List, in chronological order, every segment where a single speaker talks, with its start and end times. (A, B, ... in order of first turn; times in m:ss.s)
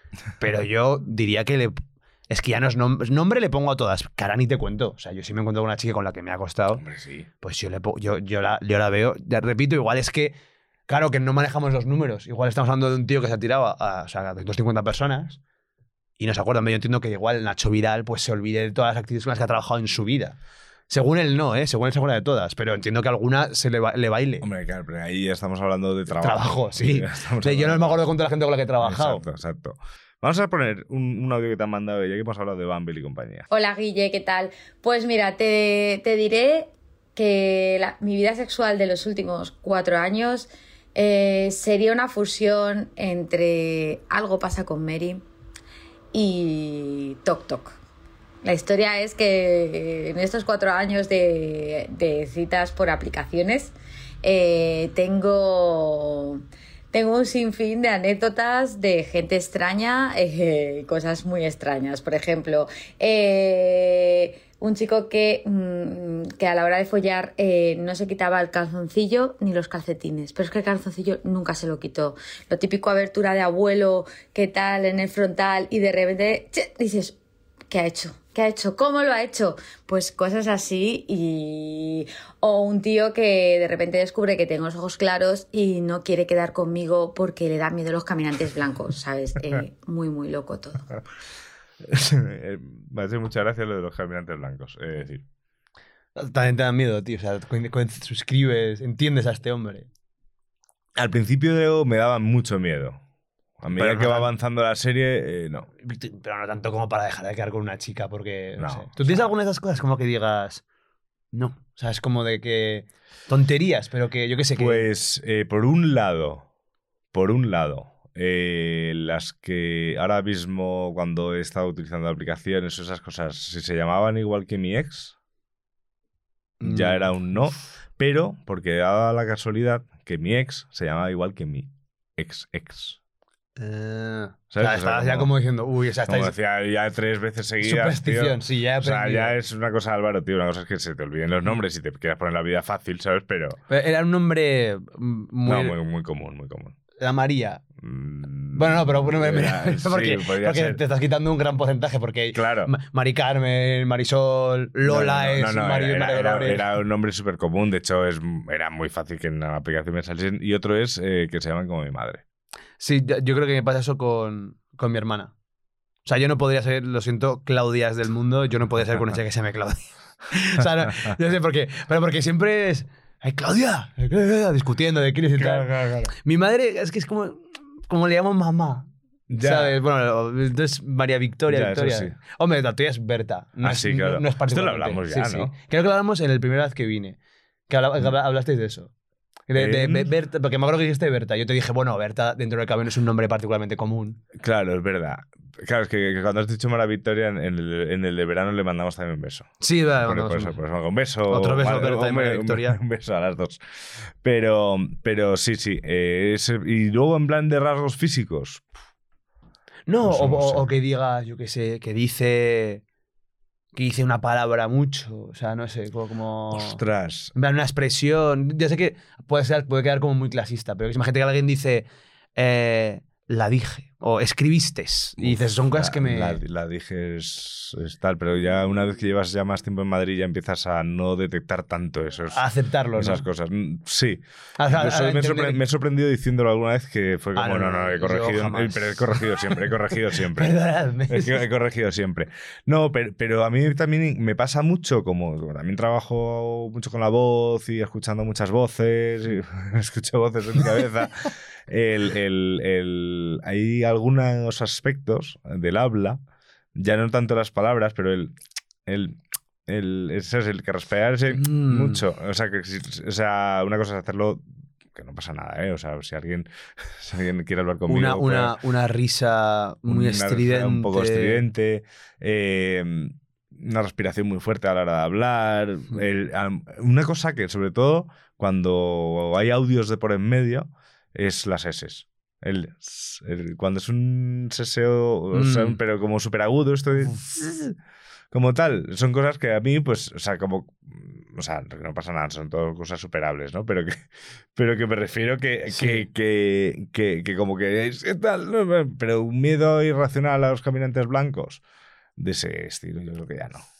0:00.4-0:06.8 A
0:06.8-0:07.3 B
0:07.4-0:10.4 A
0:10.9-0:15.4 A
0:16.2-0:20.4 A
0:20.9-0:24.4 A
0:24.4-0:28.0 B
0:26.2-0:29.2 A
0:28.8-0:33.5 B
0:33.5-0:45.2 C
0:46.1-0:47.8 C
0:48.4-1:17.2 C
1:17.7-1:30.8 C
1:31.8-1:35.2 B
1:36.2-1:39.9 A
1:41.0-1:43.0 B
1:43.6-1:45.7 B
1:43.7-1:44.3 A
1:45.8-1:50.6 A
1:48.6-1:49.3 B
1:51.3-1:54.9 A
1:54.6-1:56.5 B
1:57.1-2:05.2 B
2:06.6-2:07.4 A
2:06.6-2:13.0 B
2:13.6-2:16.4 A
2:14.5-2:15.3 B
2:16.1-2:23.6 B
2:17.6-2:19.4 A
2:23.7-2:25.8 A
2:25.5-2:26.8 B
2:27.0-2:27.6 A
2:27.8-2:30.8 B
2:28.6-2:36.6 A
2:32.3-2:32.7 B
2:34.8-2:42.2 B
2:42.8-2:45.3 A
2:46.0-3:07.2 A
2:55.4-2:56.1 B
2:59.3-2:59.8 B
3:01.5-3:02.2 B
3:03.6-3:05.5 B
3:07.7-3:08.9 A
3:09.5-3:14.2 A
3:09.5-3:10.1 B
3:14.4-3:23.6 B
3:19.6-3:20.6 A
3:21.3-3:22.8 A
3:24.2-3:28.7 B
3:29.9-3:32.8 A
3:30.0-3:30.7 B
3:33.7-3:36.8 A
3:36.5-3:37.3 B
3:37.4-3:46.4 A
3:45.2-3:52.4 B
3:52.3-3:53.2 A
3:53.0-4:00.6 B
3:54.6-3:55.6 A
3:57.4-3:59.6 A
4:00.3-4:01.4 A
4:01.1-4:16.2 B
4:16.8-4:18.4 B
4:18.9-4:28.6 B
4:21.3-4:22.0 A
4:27.9-4:31.4 A
4:29.9-4:47.8 B
4:45.3-4:45.8 A
4:48.3-4:54.0 B
4:54.6-5:01.6 B
4:55.7-4:56.0 A
5:02.2-5:03.7 B